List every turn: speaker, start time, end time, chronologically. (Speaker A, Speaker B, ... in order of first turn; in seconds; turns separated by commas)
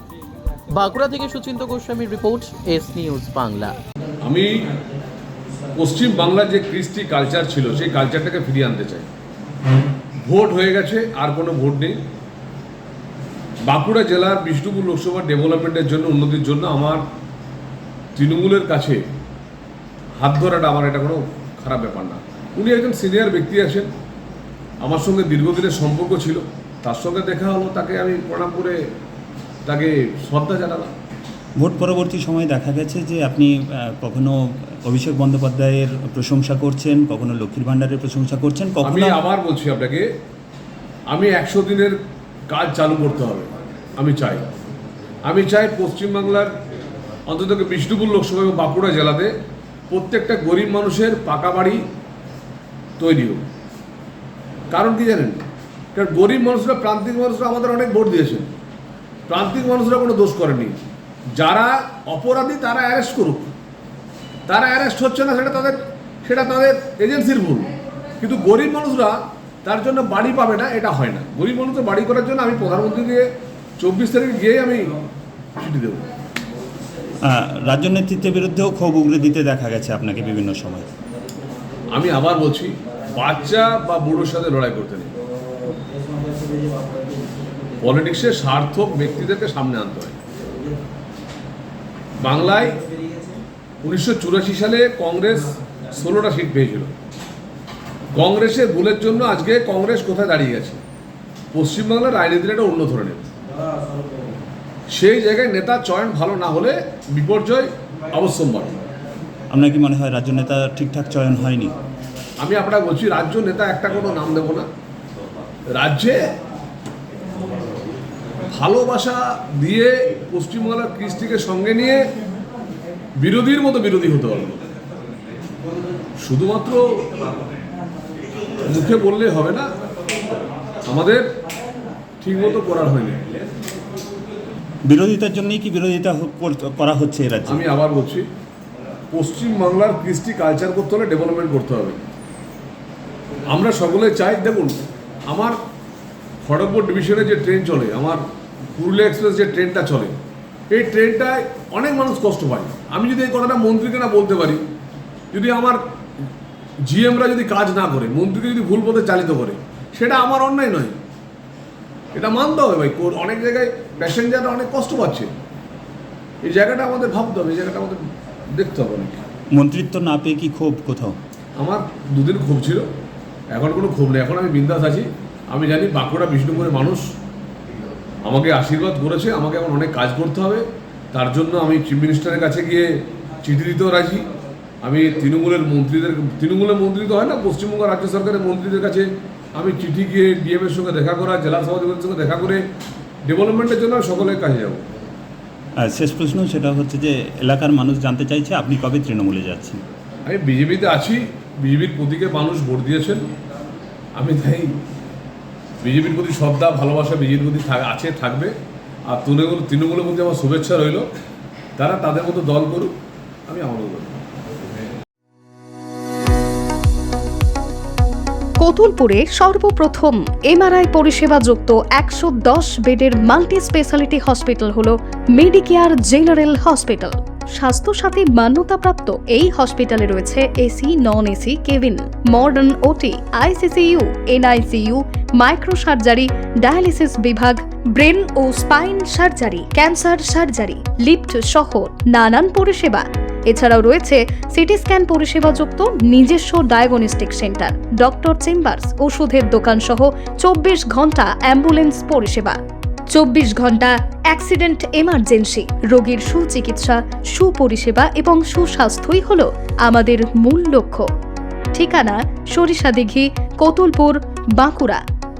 Speaker A: 0.7-3.7, Speaker B: 4.2-4.5, Speaker B: 5.7-9.1, Speaker B: 10.2-12.0, Speaker B: 13.7-17.0, Speaker B: 18.1-19.0, Speaker B: 20.2-23.9, Speaker B: 24.8-28.8, Speaker B: 29.6-30.9, Speaker C: 31.6-39.2, Speaker B: 38.8-40.1, Speaker B: 41.1-42.0, Speaker B: 42.5-44.5, Speaker B: 45.2-46.5, Speaker B: 47.3-49.3, Speaker B: 49.9-51.8, Speaker B: 53.0-53.4, Speaker B: 54.7-58.5, Speaker B: 59.3-60.8, Speaker B: 61.3-63.5, Speaker B: 64.5-74.9, Speaker B: 75.6-76.0, Speaker C: 77.2-80.9, Speaker B: 81.9-85.1, Speaker B: 87.8-90.2, Speaker B: 92.2-92.8, Speaker B: 93.8-96.9, Speaker B: 98.1-100.8, Speaker B: 101.5-103.3, Speaker B: 104.9-108.7, Speaker C: 109.5-111.7, Speaker B: 112.4-114.7, Speaker B: 115.7-116.2, Speaker B: 118.5-122.1, Speaker B: 123.2-124.6, Speaker B: 126.2-127.1, Speaker B: 128.6-129.7, Speaker B: 130.8-131.2, Speaker B: 132.2-133.2, Speaker C: 134.8-137.6, Speaker B: 137.4-138.2, Speaker B: 139.1-142.0, Speaker B: 143.5-145.6, Speaker B: 146.4-148.2, Speaker B: 148.7-150.2, Speaker B: 150.7-154.6, Speaker B: 155.3-155.8, Speaker B: 156.8-161.0, Speaker B: 162.1-165.3, Speaker B: 166.4-169.2, Speaker C: 169.5-171.2, Speaker B: 171.6-172.9, Speaker B: 173.5-177.0, Speaker B: 178.2-184.2, Speaker B: 184.8-192.6, Speaker B: 193.2-194.9, Speaker C: 195.8-199.8, Speaker B: 200.2-203.3, Speaker B: 204.1-204.8, Speaker B: 205.8-208.5, Speaker B: 209.1-211.1, Speaker B: 211.8-212.9, Speaker B: 213.5-214.2, Speaker D: 218.6-252.6, Speaker D: 253.1-261.1, Speaker D: 261.7-265.0